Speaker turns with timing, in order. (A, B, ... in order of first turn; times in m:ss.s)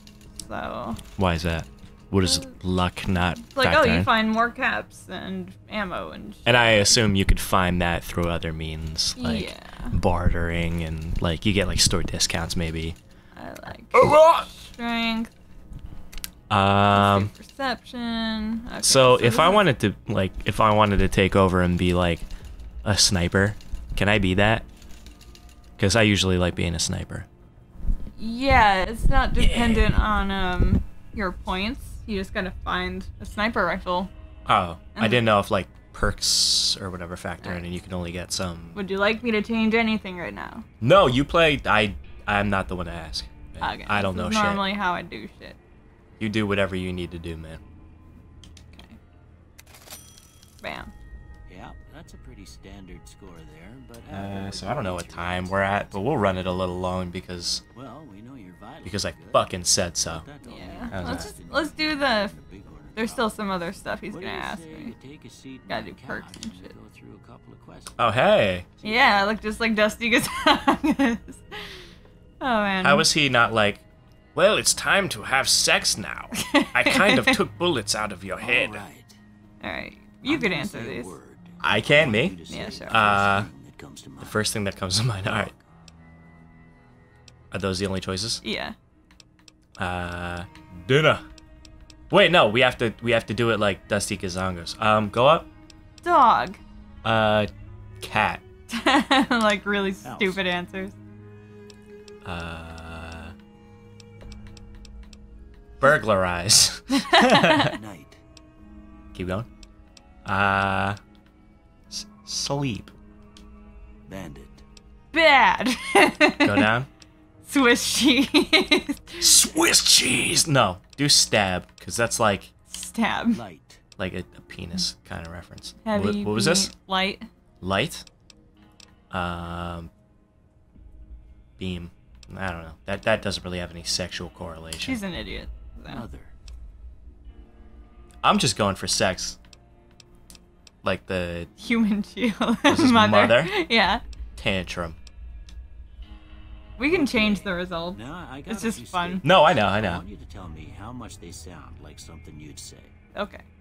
0:00.4-0:01.0 A
0:01.2-0:04.1 B
0:03.5-0:07.0 A
0:06.5-0:13.0 B
0:09.2-0:10.0 A
0:13.4-0:15.3 A
0:13.9-0:14.5 B
0:16.5-0:17.3 B
0:16.9-0:19.6 A
0:18.8-0:22.3 B
0:22.8-0:24.6 B
0:25.8-0:27.3 B
0:28.2-0:34.1 A
0:29.4-0:30.0 B
0:34.5-0:38.8 B
0:35.0-0:35.2 A
0:37.4-0:37.7 A
0:38.7-0:40.6 A
0:40.8-0:44.7 B
0:43.6-0:45.6 A
0:46.2-0:47.6 B
0:48.7-0:49.0 A
0:50.6-0:50.9 A
0:51.5-0:56.7 C
0:54.1-0:57.6 B
0:57.7-0:59.5 C
0:58.8-1:00.3 B
1:00.1-1:03.4 C
1:00.4-1:02.3 A
1:00.9-1:01.3 B
1:03.0-1:04.9 A
1:04.1-1:08.1 C
1:05.7-1:06.7 A
1:08.0-1:08.7 B
1:08.8-1:09.5 C
1:08.8-1:11.8 A
1:12.4-1:13.1 A
1:12.8-1:13.8 B
1:14.4-1:18.8 B
1:16.3-1:17.4 A
1:18.4-1:19.2 C
1:19.6-1:21.1 A
1:20.3-1:24.4 C
1:21.6-1:22.4 B
1:22.5-1:23.1 A
1:22.9-1:23.5 B
1:24.2-1:25.5 B
1:25.2-1:25.6 C
1:27.5-1:28.4 B
1:28.4-1:28.8 A
1:29.8-1:31.2 B
1:32.1-1:35.5 B
1:36.0-1:36.6 A
1:37.0-1:37.5 B
1:38.0-1:38.4 B
1:38.7-1:40.9 A
1:40.0-1:40.4 C
1:42.2-1:43.3 B
1:45.8-1:47.7 B
1:47.0-1:47.7 A
1:47.7-1:48.2 C
1:49.1-1:49.5 B
1:50.3-1:51.0 B
1:51.9-1:52.9 B
1:54.1-1:54.6 C
1:55.1-1:56.7 A
1:56.4-1:56.9 B
1:57.4-1:59.3 A
1:59.2-2:02.5 B
2:02.7-2:03.4 A
2:03.3-2:03.8 C
2:04.0-2:06.7 B
2:05.8-2:07.3 A
2:07.6-2:08.0 B
2:09.1-2:09.9 B
2:11.6-2:15.0 B
2:14.8-2:16.0 A
2:15.9-2:16.3 C
2:18.2-2:19.4 B
2:20.8-2:21.5 B
2:21.6-2:24.0 A
2:22.7-2:23.5 B
2:24.4-2:25.0 B
2:26.8-2:29.2 A
2:26.9-2:32.9 C
2:29.2-2:30.0 B
2:33.1-2:33.4 A